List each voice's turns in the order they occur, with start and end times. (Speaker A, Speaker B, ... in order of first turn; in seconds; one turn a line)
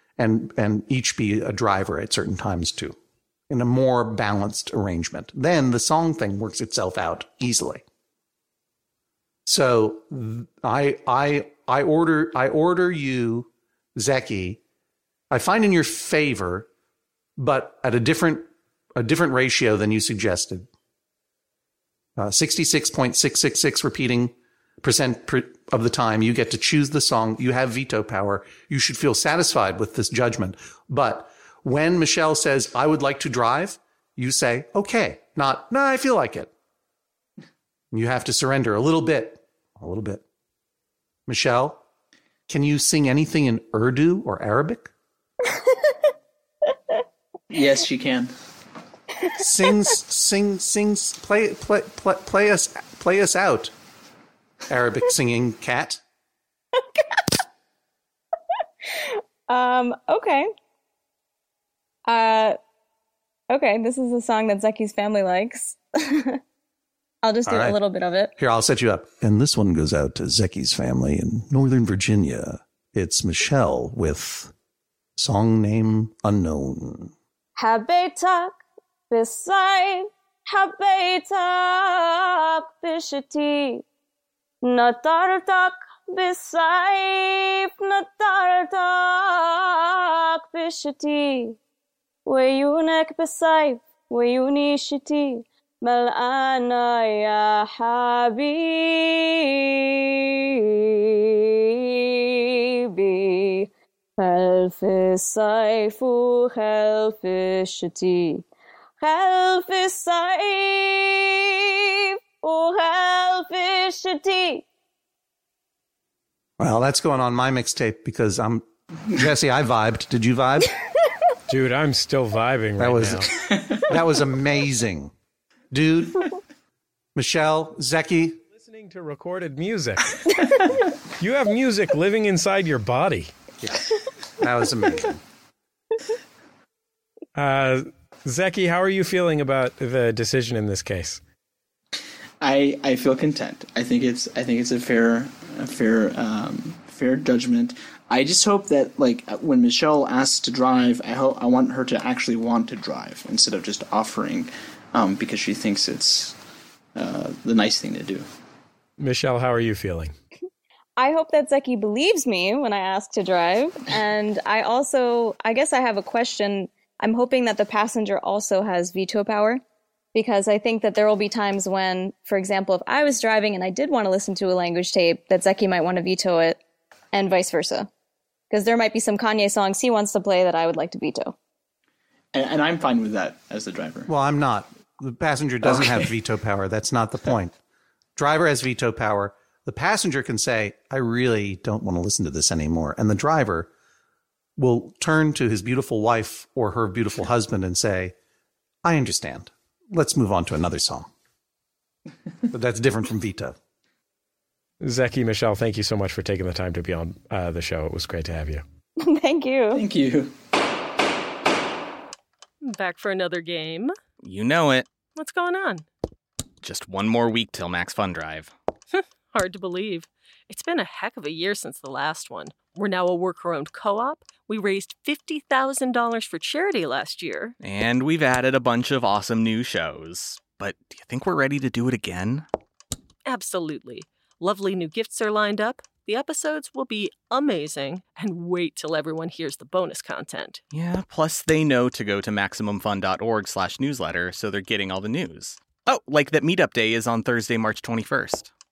Speaker A: 0.2-3.0
Speaker A: 3.5-7.8
Speaker A: 9.4-14.6
Speaker A: 15.3-16.7
Speaker A: 17.4-20.7
Speaker A: 22.2-36.5
Speaker A: 37.9-40.2
Speaker A: 41.3-41.8
Speaker A: 42.5-44.9
Speaker B: 45.5-45.9
Speaker C: 47.5-48.3
Speaker A: 49.4-53.7
Speaker A: 54.7-56.0
Speaker B: 58.9-60.5
Speaker B: 62.0-62.6
Speaker B: 63.5-66.4
Speaker B: 67.2-68.3
Speaker A: 67.5-67.8
Speaker A: 68.4-74.5
Speaker A: 75.2-77.1
Speaker B: 77.6-78.6
Speaker B: 79.1-83.8
Speaker B: 84.6-91.6
Speaker B: 92.2-108.5
Speaker B: 109.0-114.6
Speaker A: 116.6-120.7
Speaker D: 121.5-123.3
Speaker A: 122.8-125.1
Speaker C: 123.5-123.8
Speaker A: 125.7-126.3
Speaker A: 127.1-128.4
Speaker D: 128.6-130.3
Speaker D: 131.2-133.3
Speaker A: 133.6-135.2
Speaker D: 137.3-141.2
Speaker C: 142.4-156.3
Speaker C: 156.9-158.2
Speaker D: 159.0-160.1
Speaker B: 161.0-169.6
Speaker B: 170.1-176.6
Speaker B: 177.1-177.9
Speaker B: 178.5-181.3
Speaker C: 182.3-184.1
Speaker A: 184.1-187.6
Speaker C: 185.6-186.1
Speaker A: 188.2-193.7
Speaker A: 194.6-198.1
Speaker A: 198.8-201.1
Speaker A: 202.5-203.6
Speaker D: 204.8-208.6
Speaker B: 209.0-209.8
Speaker C: 209.7-210.3
Speaker E: 212.6-213.9
Speaker F: 214.2-214.9
Speaker E: 215.1-215.8
Speaker F: 216.6-218.5
Speaker E: 218.9-227.5
Speaker F: 227.6-232.5
Speaker E: 233.2-240.6
Speaker F: 240.7-248.5